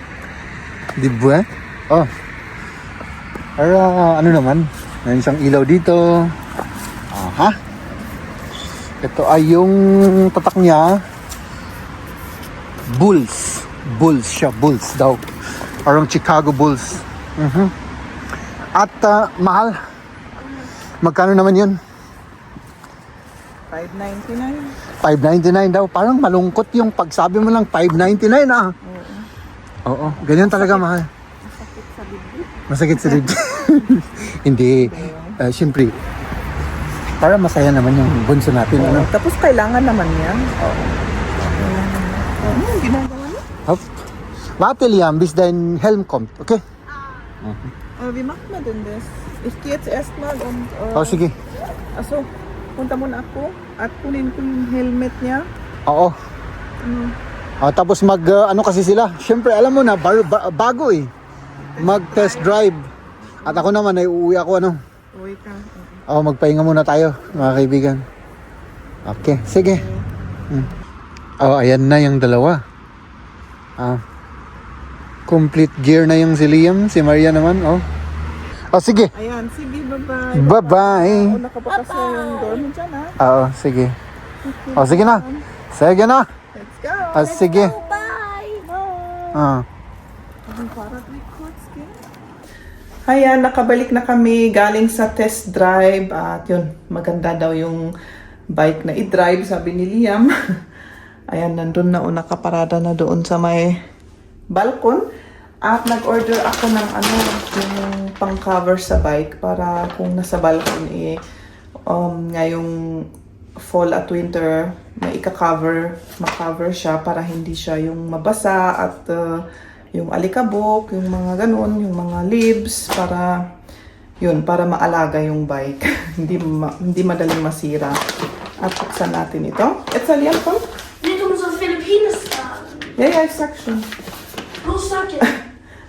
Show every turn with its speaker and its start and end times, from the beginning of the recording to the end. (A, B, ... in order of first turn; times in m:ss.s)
0:01.0-0:02.1 A
0:03.6-0:06.4 A
0:07.1-0:07.6 A
0:09.0-0:11.0 A
0:12.9-0:15.2 A
0:15.8-0:17.7 A
0:18.7-0:19.8 A
0:21.0-0:21.8 A
0:23.7-0:24.8 B
0:25.0-0:28.7 A
0:28.8-0:29.3 B
0:29.9-0:31.1 A
0:30.2-0:30.9 B
0:31.4-0:33.2 B
0:32.7-0:36.0 A
0:34.8-0:35.4 B
0:37.2-0:39.1 A
0:38.8-0:40.6 B
0:41.5-0:43.4 B
0:43.6-0:44.0 A
0:44.6-0:46.6 A
0:47.4-0:47.7 A
0:48.0-0:51.2 B
0:51.0-0:51.4 A
0:51.9-0:55.5 B
0:55.9-0:56.2 A
0:56.8-0:57.2 B
0:57.6-1:01.1 A
1:01.7-1:02.7 B
1:01.8-1:02.9 A
1:03.4-1:03.7 B
1:03.4-1:04.8 A
1:05.2-1:06.0 B
1:06.1-1:08.0 A
1:09.0-1:09.9 A
1:09.7-1:10.0 B
1:11.4-1:12.6 A
1:15.3-1:17.9 A
1:18.7-1:19.1 A
1:19.1-1:23.2 B
1:20.3-1:21.4 A
1:21.7-1:22.6 C
1:23.2-1:24.0 A
1:24.4-1:25.4 B
1:24.8-1:26.3 A
1:26.5-1:27.4 B
1:27.1-1:27.8 A
1:27.2-1:28.6 C
1:28.6-1:29.4 B
1:29.3-1:29.7 A
1:30.5-1:32.0 B
1:33.1-1:37.8 B
1:38.5-1:40.3 B
1:41.3-1:43.7 B
1:44.5-1:45.0 B
1:45.6-1:51.2 B
1:51.9-1:53.0 B
1:53.6-1:59.4 B
1:59.9-2:03.4 B
2:04.2-2:08.0 B
2:08.6-2:10.6 B
2:11.0-2:12.8 C
2:13.0-2:13.9 B
2:14.6-2:15.3 C